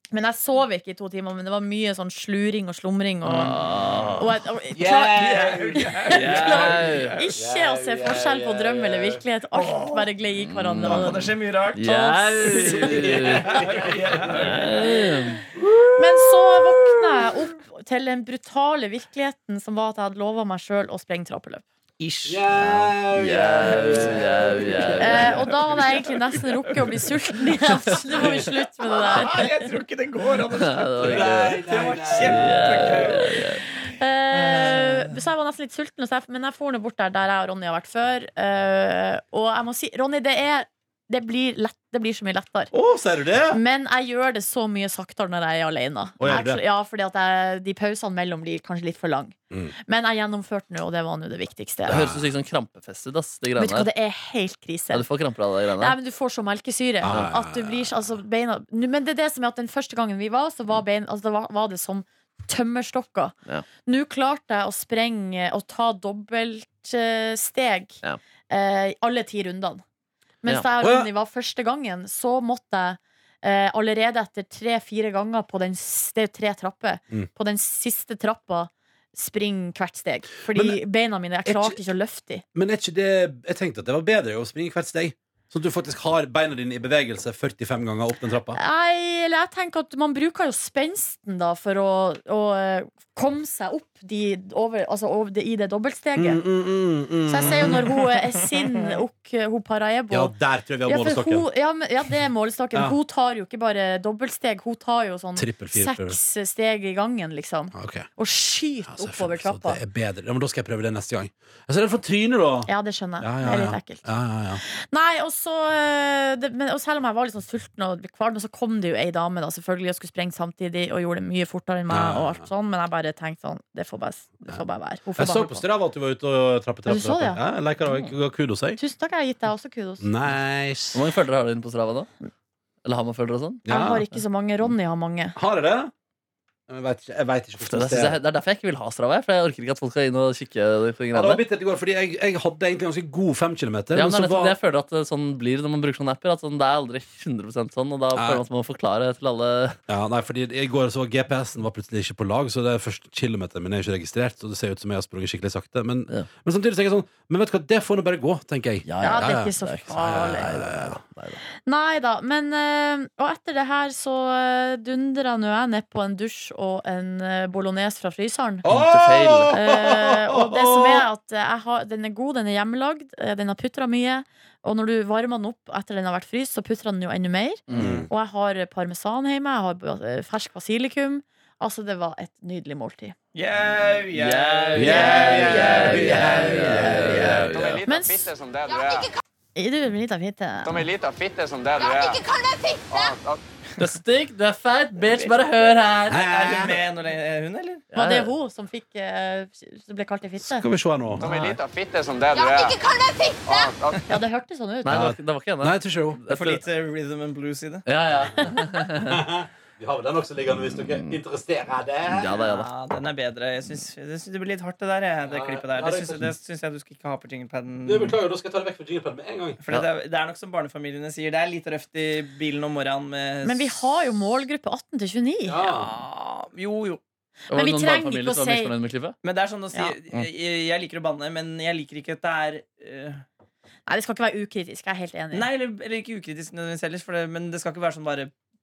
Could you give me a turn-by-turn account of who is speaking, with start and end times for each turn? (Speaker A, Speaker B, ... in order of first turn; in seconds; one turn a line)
Speaker A: 0.1-3.6
Speaker B: 3.2-4.3
Speaker A: 4.2-5.5
Speaker C: 4.8-6.0
Speaker D: 4.8-7.3
Speaker A: 6.0-11.3
Speaker B: 6.1-7.1
Speaker C: 7.3-9.2
Speaker D: 9.5-10.1
Speaker B: 10.4-13.6
Speaker D: 10.8-15.1
Speaker A: 11.8-12.8
Speaker C: 13.1-14.5
Speaker B: 14.3-15.4
Speaker C: 15.6-16.1
Speaker A: 16.0-21.6
Speaker D: 22.0-22.4
Speaker C: 22.3-25.5
Speaker B: 22.6-25.4
Speaker A: 25.0-29.6
Speaker D: 25.1-26.9
Speaker D: 28.8-33.6
Speaker B: 30.5-31.6
Speaker C: 31.0-33.2
Speaker B: 32.1-33.6
Speaker A: 33.8-42.7
Speaker D: 34.3-35.2
Speaker C: 42.7-43.6
Speaker A: 43.5-52.0
Speaker C: 46.2-46.6
Speaker C: 51.9-52.2
Speaker B: 51.9-53.9
Speaker A: 53.6-55.1
Speaker B: 54.9-56.0
Speaker A: 55.8-63.4
Speaker C: 57.0-58.1
Speaker A: 63.9-69.8
Speaker A: 70.4-82.4
Speaker C: 70.8-71.1
Speaker C: 80.5-80.8
Speaker C: 81.5-81.8
Speaker C: 82.5-88.6
Speaker A: 88.5-96.4
Speaker C: 96.2-97.9
Speaker A: 97.3-100.3
Speaker C: 100.1-101.5
Speaker A: 100.9-109.8
Speaker C: 105.4-106.2
Speaker C: 107.7-108.1
Speaker C: 108.9-114.6
Speaker A: 112.7-114.1
Speaker A: 114.6-125.7
Speaker C: 121.9-122.5
Speaker C: 125.2-128.8
Speaker A: 126.9-127.4
Speaker A: 128.8-130.1
Speaker C: 130.0-131.0
Speaker B: 130.9-132.1
Speaker B: 132.8-133.7
Speaker C: 133.7-134.1
Speaker A: 133.7-135.4
Speaker C: 135.4-135.9
Speaker C: 136.7-138.2
Speaker B: 137.7-141.4
Speaker C: 141.1-144.6
Speaker B: 143.9-149.8
Speaker C: 148.2-148.4
Speaker C: 149.9-161.0
Speaker B: 158.9-161.4
Speaker A: 159.0-160.7
Speaker A: 161.7-168.7
Speaker C: 168.6-171.1
Speaker B: 168.7-169.6
Speaker A: 169.5-183.2
Speaker B: 177.7-178.1
Speaker C: 177.7-178.1
Speaker D: 183.3-186.2
Speaker B: 184.1-187.8
Speaker C: 184.7-187.5
Speaker A: 184.8-188.3
Speaker E: 187.3-189.1
Speaker A: 189.6-190.9
Speaker E: 190.6-192.3
Speaker E: 192.9-193.4
Speaker B: 193.8-196.3
Speaker D: 195.0-197.8
Speaker C: 196.1-196.8
Speaker B: 197.9-198.3
Speaker A: 197.9-200.7
Speaker C: 200.4-201.3
Speaker E: 201.2-202.8
Speaker B: 201.2-201.6
Speaker E: 203.4-204.0
Speaker A: 204.1-205.1
Speaker B: 204.8-206.6
Speaker C: 204.9-206.2
Speaker D: 206.3-207.8
Speaker B: 207.9-209.2
Speaker C: 208.9-212.4
Speaker B: 212.1-212.7
Speaker D: 212.4-218.2
Speaker C: 215.3-216.3
Speaker C: 217.9-219.6
Speaker D: 219.6-223.8
Speaker A: 223.4-225.6
Speaker C: 225.5-225.9
Speaker D: 225.6-227.0
Speaker A: 227.5-228.7
Speaker B: 227.5-229.2
Speaker D: 229.2-233.2
Speaker A: 233.9-235.5
Speaker D: 235.3-238.3